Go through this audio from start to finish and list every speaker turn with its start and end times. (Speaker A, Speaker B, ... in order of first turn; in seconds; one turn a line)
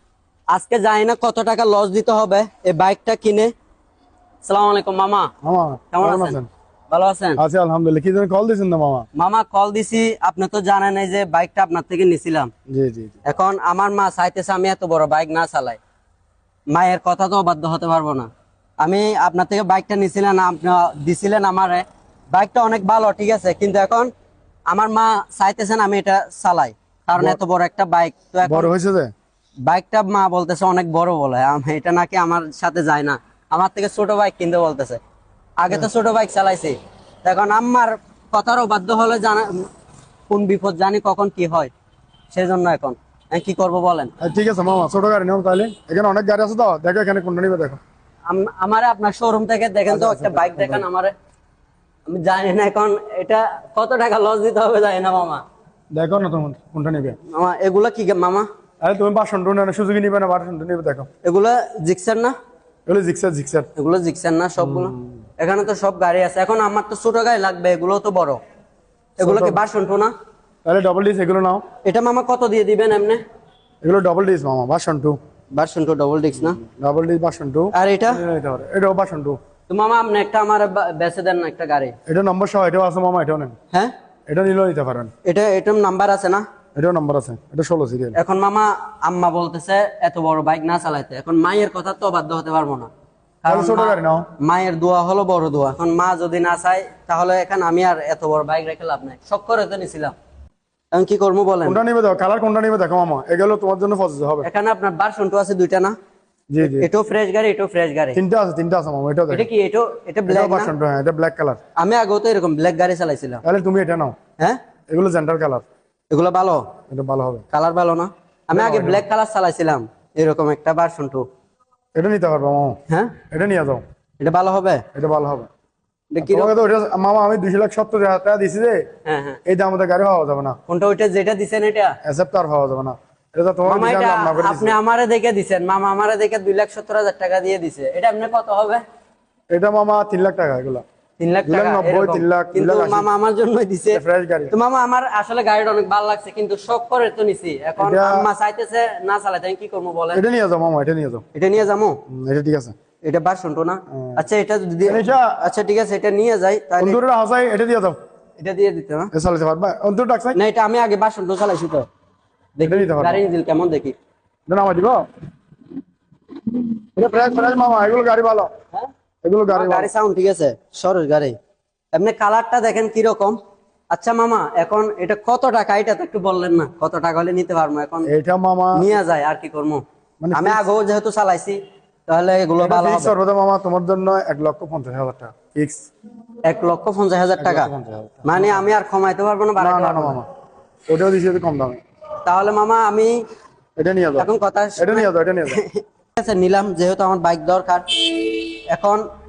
Speaker A: 0.5-3.5
Speaker A: 4.4-5.3
Speaker B: 5.4-6.5
Speaker A: 5.9-6.4
Speaker A: 6.9-7.4
Speaker B: 7.4-9.1
Speaker A: 9.2-12.5
Speaker B: 12.7-13.2
Speaker A: 13.2-15.8
Speaker A: 16.7-18.3
Speaker A: 18.8-24.1
Speaker A: 24.7-28.7
Speaker B: 28.4-29.1
Speaker A: 29.6-35.0
Speaker A: 35.6-39.7
Speaker A: 40.3-41.7
Speaker A: 42.3-44.1
Speaker B: 44.2-47.8
Speaker A: 48.3-51.1
Speaker B: 49.9-50.9
Speaker A: 52.1-55.4
Speaker B: 55.9-57.2
Speaker A: 57.3-58.5
Speaker B: 58.8-61.1
Speaker A: 61.2-62.4
Speaker B: 62.9-63.7
Speaker A: 63.8-68.4
Speaker B: 64.6-65.2
Speaker A: 69.2-70.1
Speaker B: 69.2-69.6
Speaker B: 70.7-71.6
Speaker A: 71.8-73.2
Speaker B: 73.8-75.2
Speaker A: 75.5-76.6
Speaker B: 76.4-79.4
Speaker A: 77.7-78.2
Speaker A: 79.7-82.0
Speaker B: 82.1-83.6
Speaker B: 84.3-85.1
Speaker A: 85.2-86.5
Speaker B: 86.8-88.2
Speaker A: 88.2-92.9
Speaker A: 93.4-100.2
Speaker B: 93.5-94.3
Speaker A: 100.9-101.8
Speaker B: 101.7-104.5
Speaker A: 104.4-106.0
Speaker B: 106.5-106.9
Speaker A: 106.6-108.2
Speaker B: 108.2-109.5
Speaker A: 109.3-110.7
Speaker B: 110.3-111.6
Speaker A: 111.8-113.4
Speaker B: 113.4-114.2
Speaker B: 114.9-115.7
Speaker A: 116.1-116.7
Speaker B: 116.9-117.4
Speaker A: 117.5-121.3
Speaker B: 118.5-119.0
Speaker B: 122.0-122.8
Speaker A: 122.9-123.2
Speaker B: 123.3-123.8
Speaker A: 124.2-124.8
Speaker B: 124.9-125.5
Speaker A: 126.1-126.5
Speaker B: 126.2-128.9
Speaker A: 129.1-129.4
Speaker B: 129.5-130.6
Speaker A: 130.7-132.0
Speaker B: 132.0-134.8
Speaker A: 133.7-138.8
Speaker B: 139.5-140.8
Speaker A: 141.2-150.2
Speaker B: 141.5-143.1
Speaker B: 143.9-144.6
Speaker B: 147.8-148.3
Speaker B: 150.1-151.2
Speaker A: 151.3-152.0
Speaker B: 152.1-152.8
Speaker A: 153.0-157.0
Speaker B: 153.9-154.2
Speaker B: 154.8-155.4
Speaker B: 156.8-158.0
Speaker A: 158.4-159.1
Speaker B: 159.1-160.4
Speaker A: 160.3-161.9
Speaker A: 162.6-163.9
Speaker B: 162.6-163.2
Speaker B: 164.5-165.0
Speaker B: 167.0-168.5
Speaker B: 169.2-169.9
Speaker A: 169.5-171.3
Speaker A: 171.9-173.4
Speaker A: 173.9-178.1
Speaker B: 178.1-178.9
Speaker A: 178.7-183.2
Speaker B: 180.2-180.7
Speaker B: 182.6-185.9
Speaker A: 186.4-187.7
Speaker B: 187.4-188.7
Speaker A: 188.2-190.2
Speaker B: 189.6-190.3
Speaker B: 190.9-191.8
Speaker A: 192.2-193.2
Speaker B: 193.8-195.6
Speaker A: 194.2-199.1